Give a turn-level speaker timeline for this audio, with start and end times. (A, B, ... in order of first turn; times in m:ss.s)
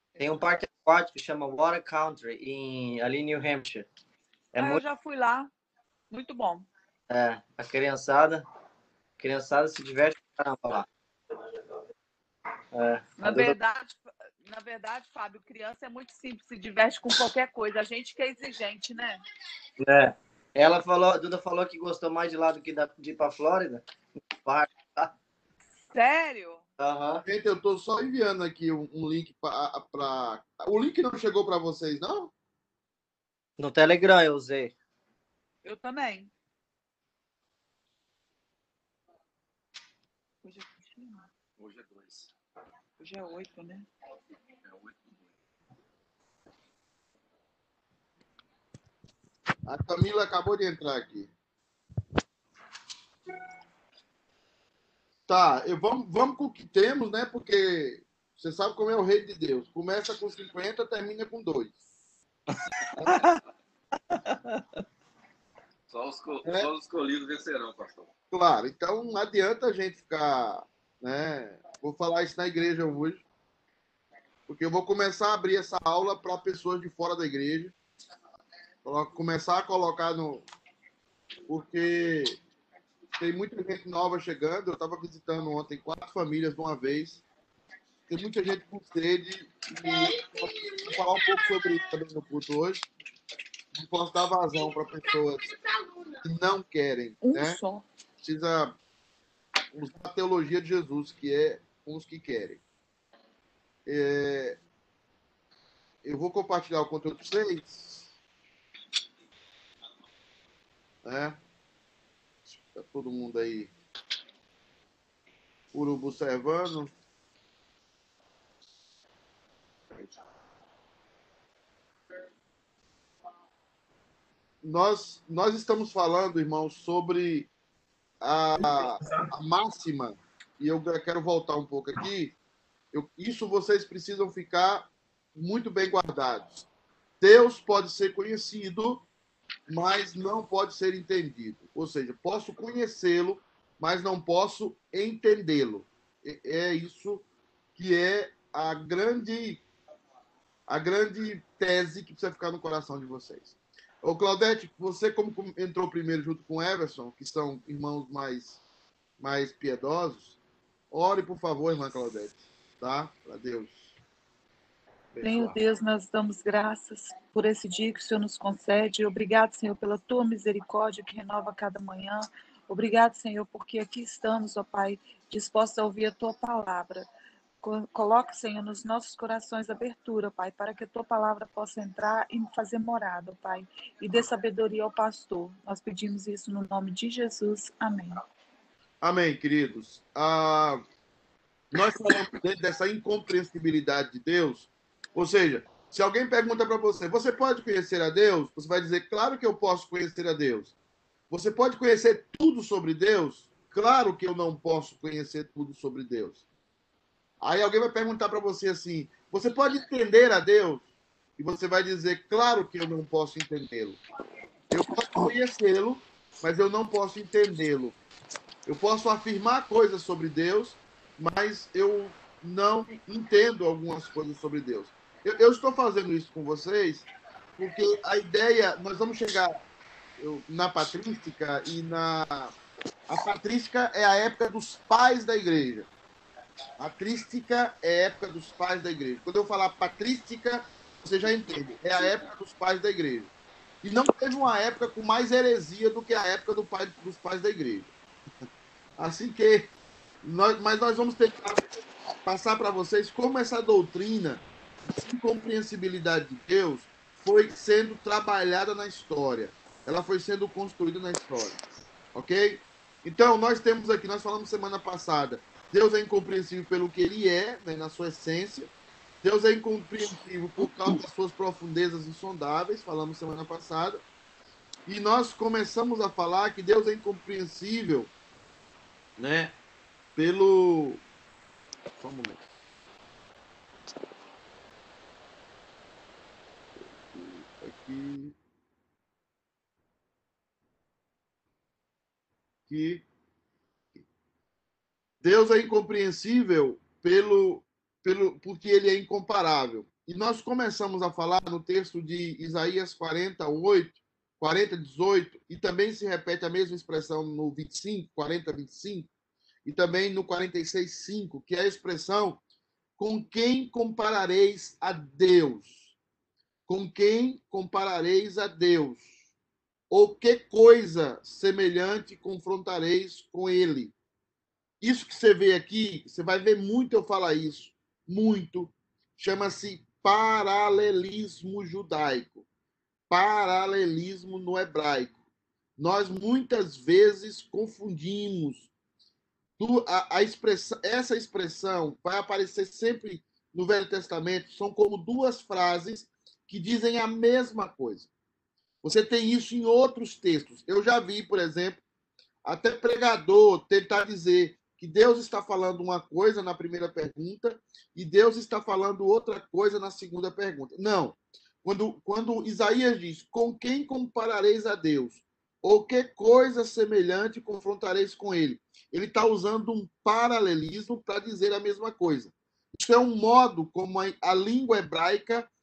0:00.2-0:03.9 A
0:04.5-0:04.8 A
0:04.6-0:05.5 B
0:06.1-0:06.7 B
0:07.1-0:08.4 A
0:09.2-0:10.8 A
0:12.7-0:13.5 A
0:13.2-0:19.2 B
0:19.8-0:23.8 A
0:24.4-0:25.1 A
0:25.9-0:26.6 B
0:26.8-0:27.2 A
0:27.2-0:32.3 C
0:33.6-0:34.7 A
0:35.6-0:36.3 B
0:40.4-0:41.2 B
0:41.6-0:42.3 D
0:43.0-0:43.9 B
0:44.6-0:45.2 D
0:49.6-0:51.3 C
0:55.3-1:01.7 C
1:05.9-1:08.1 D
1:06.4-1:06.7 C
1:08.3-1:13.2 C
1:14.5-1:17.7 C
1:18.8-1:20.4 C
1:21.5-1:22.4 C
1:23.2-1:27.2 C
1:28.1-1:32.9 C
1:33.7-1:35.5 C
1:36.2-1:37.6 C
1:37.2-1:37.8 B
1:38.2-1:38.8 C
1:39.7-1:42.6 C
1:43.8-1:44.6 C
1:46.0-1:48.1 C
1:51.0-1:51.4 C
1:52.5-1:53.7 C
1:55.7-1:56.9 C
2:04.6-2:07.5 C
2:08.2-2:12.4 C
2:12.9-2:16.7 C
2:17.2-2:19.0 C
2:19.7-2:27.2 C
2:27.8-2:29.6 C
2:30.7-2:38.6 C
2:39.2-2:40.4 C
2:40.9-2:43.8 C
2:45.1-2:45.6 C
2:45.2-2:57.1 B
2:57.6-3:08.2 B
3:09.0-3:10.8 C
3:11.7-3:20.7 C
3:21.3-3:26.4 C
3:27.4-3:30.8 C
3:31.4-3:34.0 C
3:34.7-3:38.0 C
3:38.6-3:47.0 C
3:47.6-3:49.6 C
3:50.2-3:52.5 C
3:53.1-3:55.9 C
3:56.8-4:03.3 C
4:03.8-4:07.9 C
4:09.0-4:09.7 C
4:10.2-4:11.6 C
4:12.2-4:14.4 C
4:14.9-4:21.6 C
4:22.1-4:28.7 C
4:29.2-4:34.0 C
4:34.9-4:38.1 C
4:39.2-4:39.5 C
4:40.2-4:41.0 C
4:42.0-4:42.4 C
4:47.1-4:48.3 C
4:52.7-4:53.0 C
4:55.2-5:09.1 C
5:09.6-5:12.4 C
5:13.0-5:15.9 C
5:16.7-5:19.2 C
5:19.9-5:23.9 C
5:24.8-5:32.4 C
5:33.1-5:35.1 C
5:35.8-5:38.7 C
5:39.6-5:48.1 C
5:48.8-5:51.8 C
5:52.4-6:15.5 C